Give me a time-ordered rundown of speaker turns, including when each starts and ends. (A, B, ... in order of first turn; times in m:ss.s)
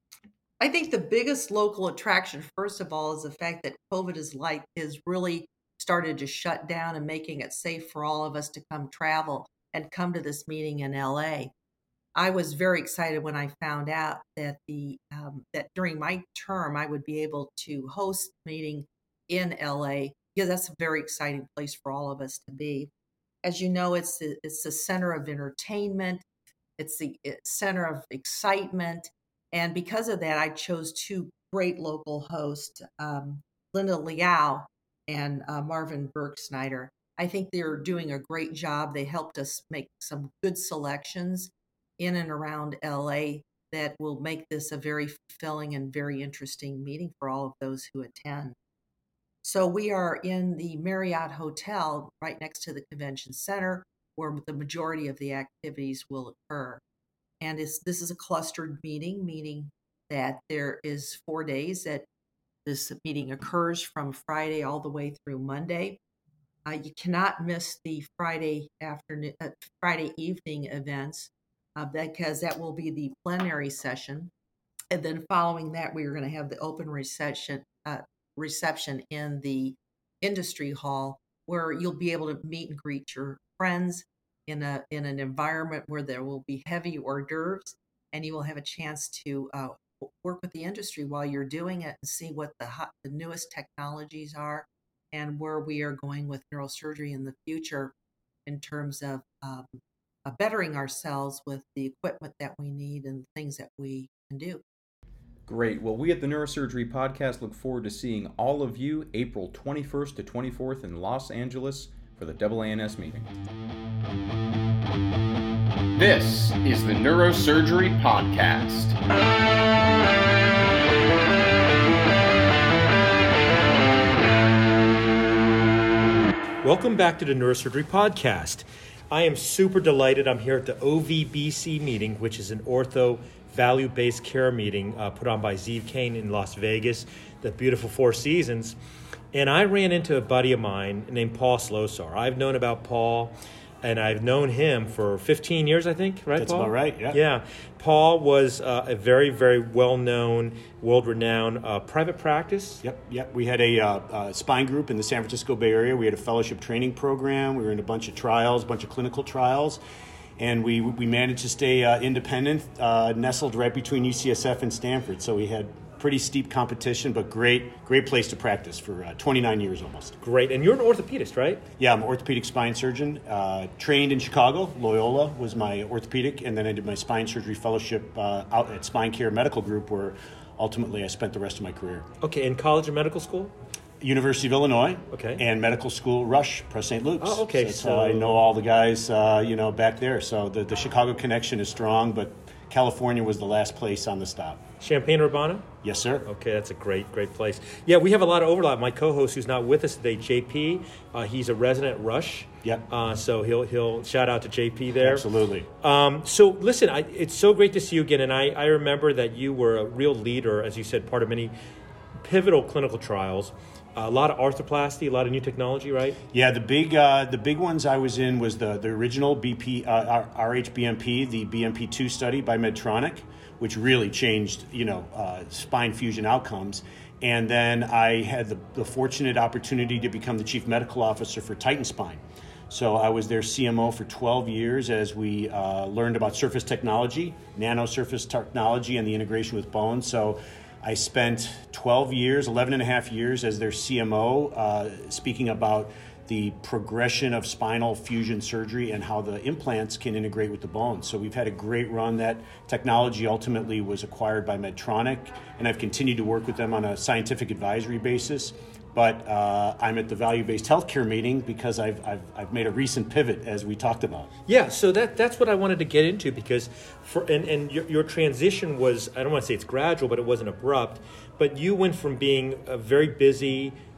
0:00.6-0:11.5 A
0:12.1-0:22.9 A
0:23.4-0:26.2 A
0:26.8-0:48.6 A
0:49.4-0:56.8 A
0:57.4-1:02.0 A
1:02.6-1:06.0 A
1:06.6-1:14.3 A
1:14.9-1:37.9 A
1:38.4-1:44.6 A
1:45.4-1:53.3 B
1:56.0-1:59.0 C
2:06.6-2:18.8 D
2:19.3-2:32.8 D
2:26.4-2:27.2 E
2:32.8-2:39.8 E
2:40.4-2:50.2 E
2:50.2-2:51.6 D
2:51.8-3:02.1 E
3:02.2-3:03.5 D
3:04.0-3:14.6 E
3:05.1-3:05.4 D
3:07.2-3:08.4 D
3:14.8-3:15.7 D
3:15.8-3:16.3 E
3:16.3-3:25.2 D
3:25.0-3:25.7 E
3:25.8-3:31.5 D
3:32.2-3:36.2 D
3:36.3-4:24.3 E
4:24.5-4:33.8 D